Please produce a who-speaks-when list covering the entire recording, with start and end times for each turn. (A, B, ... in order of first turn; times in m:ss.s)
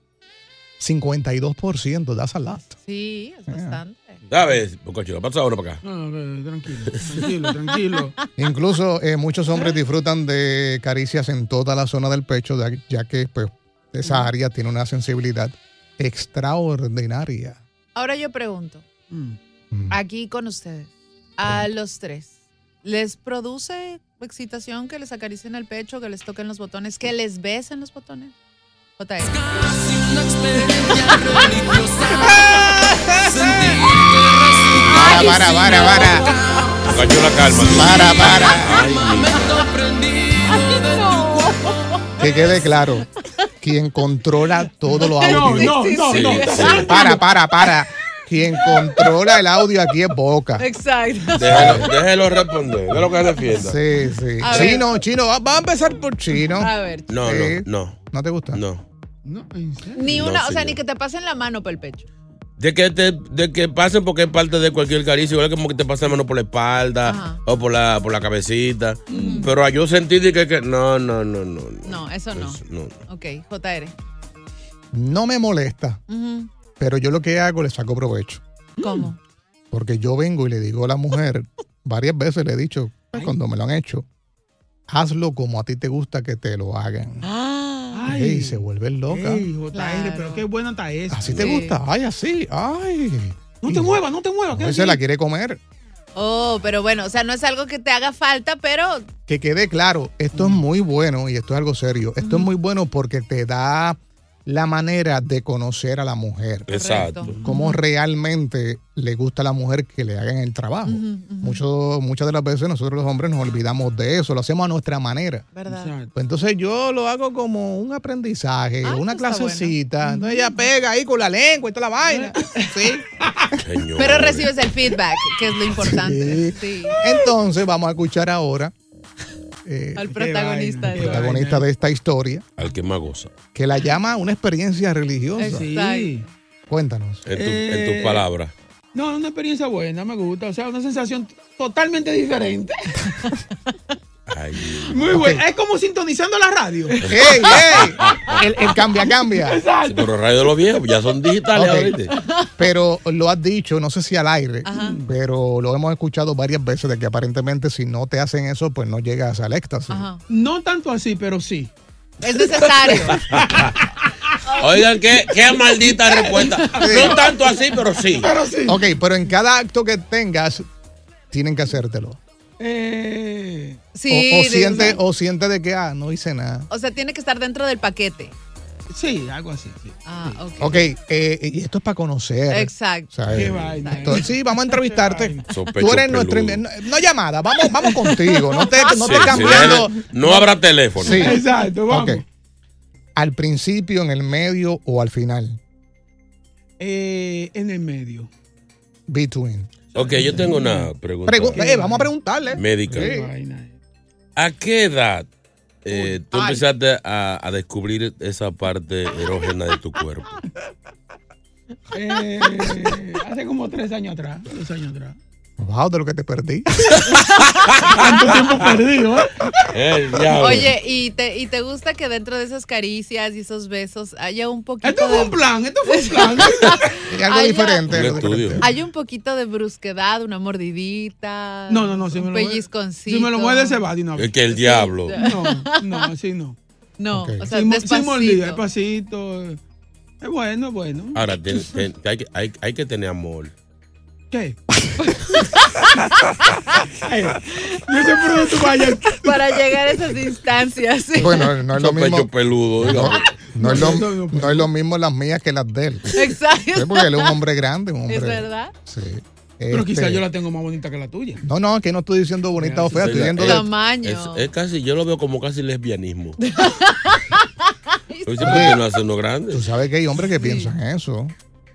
0:00.8-0:02.7 A
0:02.7-0:04.2 B
0:03.5-0:03.8 A
0:04.3-0:05.8 C
0:05.8-0:08.1 D
0:08.4-0:17.6 A
0:17.9-0:18.8 B
0:19.1-0:19.4 D
0:19.7-0:20.0 A
0:19.9-0:28.3 B
0:29.0-0:29.8 B
0:30.5-0:32.6 B
0:33.4-0:33.8 B
0:34.6-0:36.9 B
0:34.9-0:36.3 A
0:36.9-0:39.7 C
0:37.7-0:38.8 A
0:39.3-0:39.7 B
0:40.4-0:42.0 B
0:42.2-0:43.1 A
0:43.6-0:46.0 A
0:45.0-0:47.2 B
0:45.2-0:47.1 D
0:46.1-0:47.0 C
0:46.8-0:50.7 A
0:50.6-0:52.0 B
0:51.3-0:53.8 C
0:51.5-0:51.9 A
0:53.5-0:56.7 A
0:54.4-0:54.8 B
0:56.5-0:57.1 B
0:57.1-0:58.0 C
0:57.2-0:58.6 A
0:58.5-0:58.8 C
0:59.2-1:00.1 D
0:59.9-1:02.0 B
1:00.1-1:00.8 C
1:02.6-1:13.0 C
1:07.0-1:07.4 B
1:09.1-1:09.5 D
1:09.1-1:09.5 B
1:11.8-1:13.9 B
1:14.9-1:16.0 A
1:16.1-1:16.5 B
1:16.8-1:18.4 A
1:18.8-1:19.1 D
1:18.8-1:19.2 B
1:19.7-1:24.0 A
1:24.9-1:27.2 A
1:27.2-1:28.0 B
1:27.9-1:31.6 D
1:28.1-1:29.5 A
1:29.7-1:30.4 B
1:31.1-1:34.0 A
1:31.3-1:31.8 B
1:33.6-1:35.0 D
1:34.5-1:35.6 A
1:36.1-1:39.1 B
1:39.3-1:46.7 A
1:42.2-1:42.5 B
1:46.7-1:47.4 C
1:46.7-1:47.8 B
1:47.4-1:55.5 A
1:50.8-1:51.6 B
1:55.5-1:55.9 B
1:55.7-1:56.1 D
1:56.1-2:03.0 A
1:58.8-2:00.6 B
2:02.1-2:02.6 D
2:03.2-2:03.5 D
2:03.6-2:04.5 C
2:04.0-2:07.0 B
2:05.8-2:08.7 A
2:09.6-2:10.2 A
2:10.0-2:11.3 B
2:10.1-2:11.6 D
2:10.9-2:12.4 A
2:12.6-2:13.3 C
2:13.5-2:15.7 A
2:15.4-2:16.2 B
2:15.4-2:16.3 D
2:16.7-2:17.3 A
2:17.2-2:18.5 C
2:17.3-2:18.2 D
2:18.9-2:23.1 D
2:24.3-2:25.1 C
2:24.9-2:28.1 D
2:25.1-2:25.4 A
2:27.0-2:28.3 C
2:27.0-2:29.6 A
2:29.3-2:30.1 D
2:29.8-2:32.1 C
2:31.5-2:31.9 A
2:32.2-2:32.5 B
2:32.6-2:40.1 A
2:34.6-2:35.0 B
2:34.7-2:35.1 D
2:39.9-2:40.2 B
2:40.3-2:41.7 D
2:42.2-2:43.3 B
2:42.9-2:43.8 D
2:44.6-2:48.3 C
2:46.2-2:47.2 D
2:46.8-2:47.2 A
2:48.1-2:48.8 D
2:48.6-2:50.7 A
2:51.3-2:52.2 A
2:52.6-2:53.8 D
2:53.9-2:55.0 B
2:54.1-2:56.7 A
2:56.7-2:58.3 B
2:58.9-3:00.4 D
3:00.0-3:00.9 B
3:00.6-3:12.2 A
3:02.5-3:04.2 B
3:03.3-3:05.5 D
3:05.5-3:06.6 C
3:08.8-3:09.4 B
3:09.0-3:11.4 C
3:11.0-3:12.2 D
3:13.2-3:15.6 A
3:16.8-3:18.3 D
3:19.1-3:19.7 A
3:19.9-3:20.9 D
3:19.9-3:21.6 C
3:21.3-3:23.3 A
3:21.5-3:22.1 D
3:22.6-3:23.1 C
3:22.9-3:23.7 D
3:24.4-3:25.3 C
3:25.8-3:30.3 C
3:26.3-3:26.6 B
3:31.9-3:35.2 D
3:35.6-3:37.0 A
3:37.9-3:39.4 D
3:39.7-3:40.7 C
3:40.4-3:47.9 B
3:44.8-3:46.9 D
3:47.1-3:48.7 A
3:47.9-3:48.6 C
3:48.6-3:53.8 B
3:51.7-3:54.5 D
3:54.2-3:55.2 C
3:54.5-3:56.0 B
3:55.1-3:56.6 D
3:57.0-3:58.6 B
3:57.1-3:57.5 A
3:57.5-3:59.6 D
4:00.2-4:01.2 D
4:01.1-4:03.5 C
4:04.3-4:04.6 D
4:07.0-4:09.6 D
4:07.7-4:11.5 B
4:11.1-4:20.2 A
4:11.8-4:13.3 C
4:13.5-4:14.7 D
4:16.1-4:17.4 B
4:18.1-4:18.7 B
4:19.7-4:21.4 D
4:21.4-4:23.6 A
4:22.6-4:23.4 D
4:23.0-4:26.4 C
4:23.4-4:24.5 B
4:26.4-4:27.4 B
4:28.1-4:28.7 B
4:28.2-4:29.7 C
4:28.4-4:28.8 A
4:29.5-4:31.3 A
4:30.4-4:30.7 B